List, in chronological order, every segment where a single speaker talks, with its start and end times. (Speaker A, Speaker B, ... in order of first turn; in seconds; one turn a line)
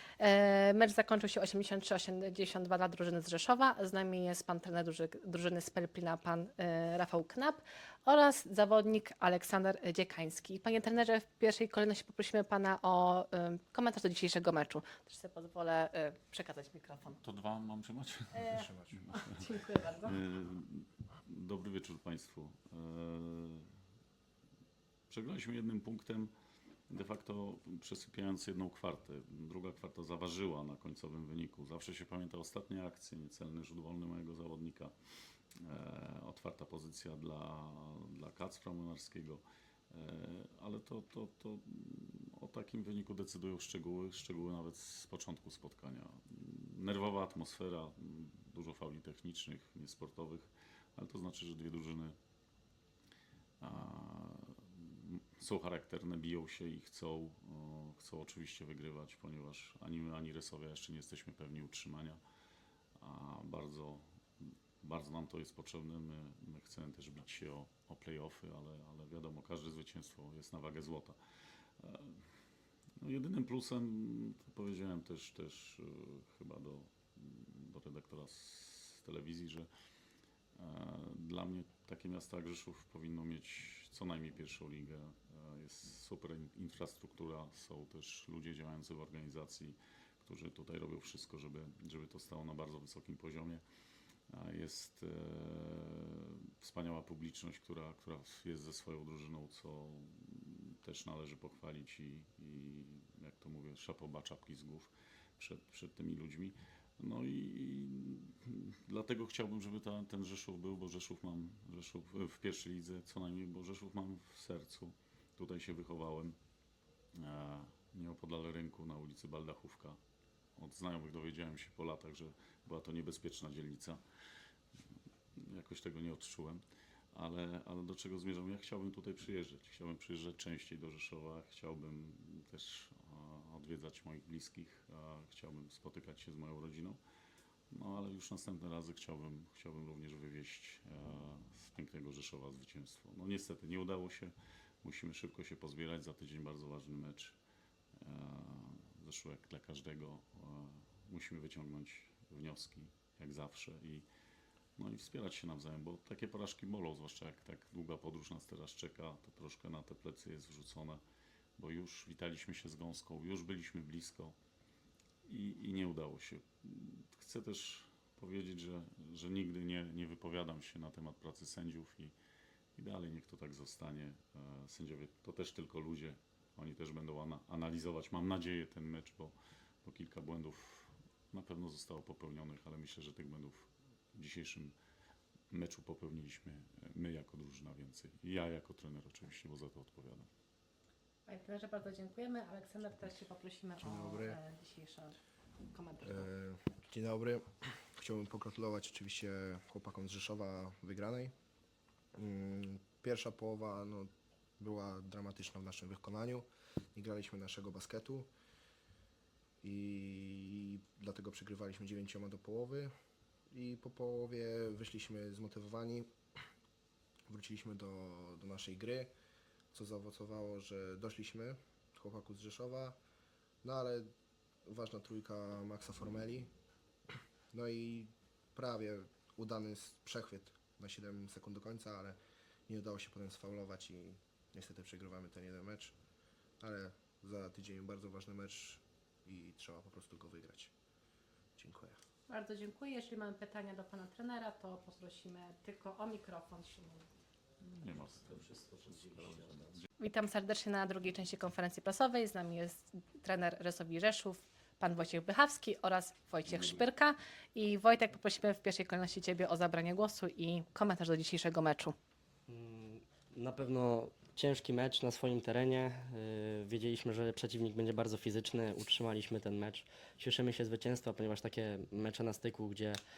Speaker A: 0.2-17.2
Speaker B: 17.2-19.4
Speaker A: 18.3-20.2
Speaker C: 18.5-19.1
Speaker B: 20.0-23.7
Speaker B: 25.1-26.3
Speaker B: 26.9-34.9
Speaker B: 35.6-52.2
Speaker B: 53.6-62.2
Speaker B: 63.0-71.2
Speaker B: 71.8-72.2
Speaker B: 73.0-79.7
Speaker B: 80.5-93.6
Speaker B: 94.3-116.3
Speaker B: 117.2-120.0
Speaker B: 120.5-124.0
Speaker B: 125.3-126.6
Speaker B: 127.1-137.0
Speaker B: 137.7-147.4
Speaker B: 148.0-154.1
Speaker B: 154.8-161.0
Speaker B: 161.6-164.3
Speaker B: 165.2-172.1
Speaker B: 172.8-184.7
Speaker B: 185.5-190.3
Speaker A: 191.3-195.2
Speaker C: 193.8-194.4
Speaker A: 195.7-196.3
Speaker C: 196.0-201.3
Speaker C: 202.1-208.3
Speaker C: 209.6-212.9
Speaker C: 213.5-216.1
Speaker C: 217.3-219.1
Speaker C: 219.7-223.0
Speaker C: 223.6-224.1
Speaker C: 224.7-226.5
Speaker C: 227.5-235.9
Speaker C: 236.6-240.7
Speaker C: 241.6-242.0
Speaker A: 242.3-247.1
Speaker B: 247.6-249.9
Speaker A: 250.0-261.9
Speaker D: 262.5-273.0